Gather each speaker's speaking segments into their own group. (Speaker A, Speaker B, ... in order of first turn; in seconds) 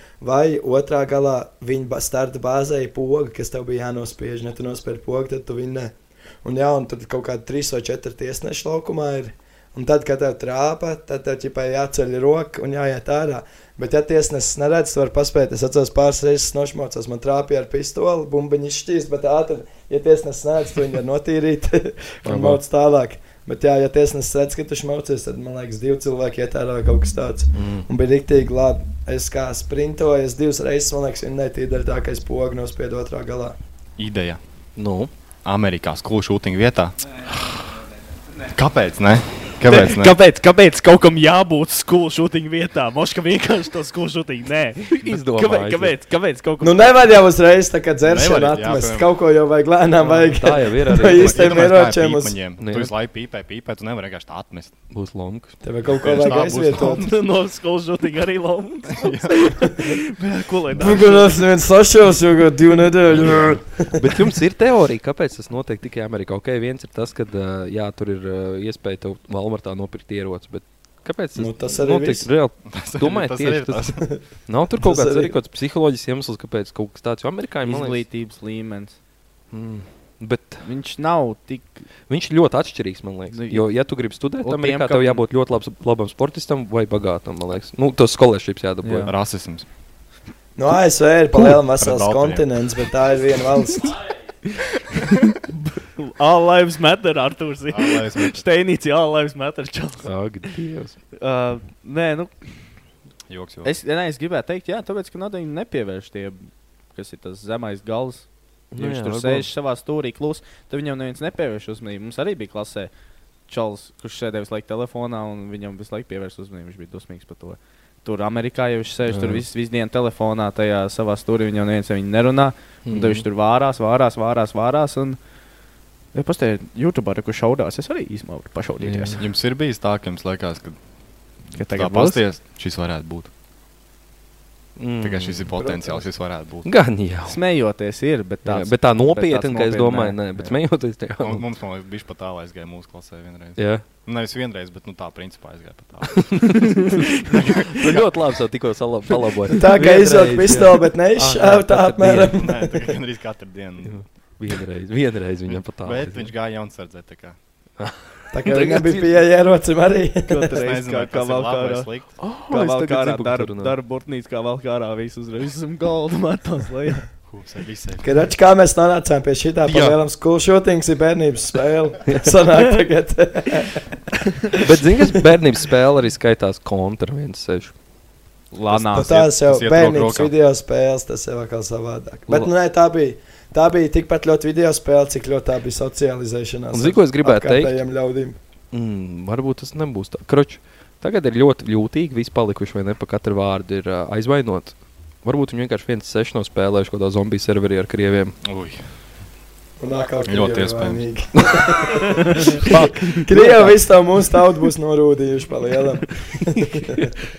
Speaker A: 0.2-33.6, 46.6-52.4, 55.6-57.1, 60.7-64.2, 71.3-72.3, 74.8-75.3, 90.6-94.0, 135.6-136.1, 149.6-153.0, 158.3-160.6, 168.0-173.9, 178.9-188.4, 199.8-207.1
Speaker B: 22.2-22.6, 27.5-27.9, 34.8-35.1, 44.9-46.0, 50.3-51.6, 52.6-52.9, 54.9-55.5, 63.1-78.0, 79.5-80.6, 82.1-89.1, 100.0-101.0, 108.7-109.5, 119.1-119.4, 122.8-123.2, 128.8-129.2, 134.8-135.5, 136.6-137.4, 138.4-141.4, 143.6-143.8, 147.7-152.4, 153.8-156.3, 157.8-159.2, 162.2-163.8, 169.6-170.0, 174.6-177.7, 186.7-187.8, 188.7-198.4, 202.6-203.8, 206.7-207.0
Speaker C: 34.0-34.4, 35.4-37.5, 38.5-40.1, 48.0-49.1, 51.0-54.7, 56.0-57.1, 58.9-59.5, 72.7-74.0, 89.0-89.7, 91.4-92.5, 97.7-98.4, 103.3-103.7, 129.2-130.8, 131.5-133.3, 135.0-136.7, 141.2-148.3, 152.3-154.0, 155.5-157.4, 160.6-162.1, 167.3-168.1, 178.9-180.3, 198.4-198.8, 200.2-201.1
Speaker D: 39.6-46.9, 50.0-50.3, 56.7-61.4, 77.6-79.0, 80.6-81.8, 83.3-83.7, 84.4-85.2, 88.8-89.1, 94.5-100.1, 101.2-102.3, 103.6-106.4, 106.9-112.9, 113.5-125.2, 126.1-129.2, 131.5-132.2, 137.2-140.5, 160.3-167.1, 178.5-179.3